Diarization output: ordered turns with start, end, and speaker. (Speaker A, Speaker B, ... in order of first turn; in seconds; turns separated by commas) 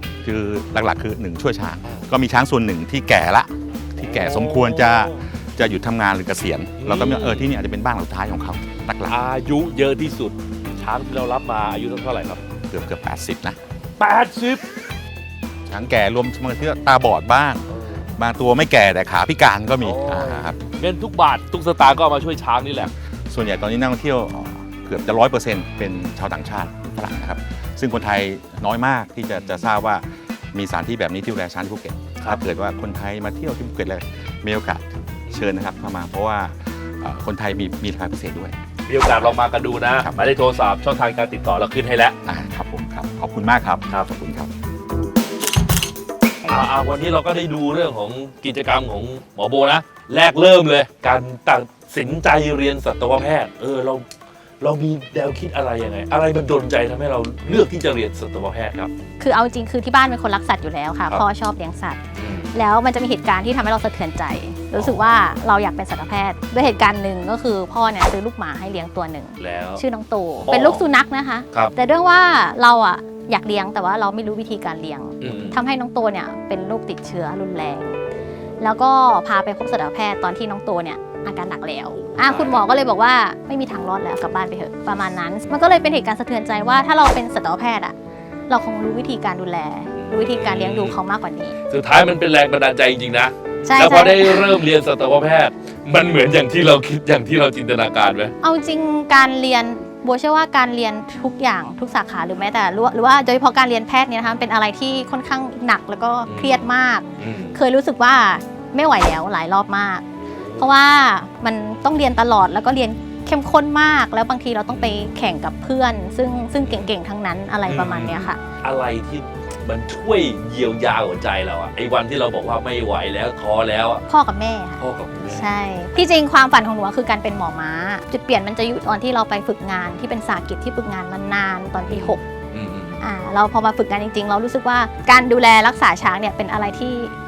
Speaker A: 0.2-9.2, Speaker B: 4.0-5.2, Speaker B: 6.8-7.5, Speaker B: 9.1-12.4, Speaker A: 12.7-13.6, Speaker B: 14.0-14.6, Speaker A: 15.7-17.6, Speaker B: 17.7-18.1, Speaker A: 18.1-20.6, Speaker B: 19.8-22.9, Speaker A: 23.3-38.5, Speaker B: 29.3-29.7, Speaker B: 38.9-42.1, Speaker A: 40.0-40.3, Speaker A: 42.2-44.5, Speaker B: 46.5-54.0, Speaker B: 54.6-58.9, Speaker C: 59.2-62.0, Speaker B: 62.1-62.5, Speaker C: 62.5-78.0, Speaker B: 64.8-65.0, Speaker B: 69.4-69.8, Speaker B: 70.5-70.8, Speaker B: 75.2-75.6, Speaker C: 78.6-87.9, Speaker B: 81.9-82.6, Speaker C: 88.5-91.5, Speaker B: 89.9-91.0, Speaker B: 91.7-98.3, Speaker C: 93.7-94.6, Speaker C: 98.4-110.0, Speaker B: 106.3-107.6, Speaker B: 110.3-110.7, Speaker C: 110.6-118.4, Speaker B: 114.7-115.1, Speaker B: 116.6-116.9, Speaker B: 117.7-124.0, Speaker C: 124.1-132.2, Speaker B: 124.8-125.5, Speaker B: 131.9-133.0, Speaker C: 133.0-137.1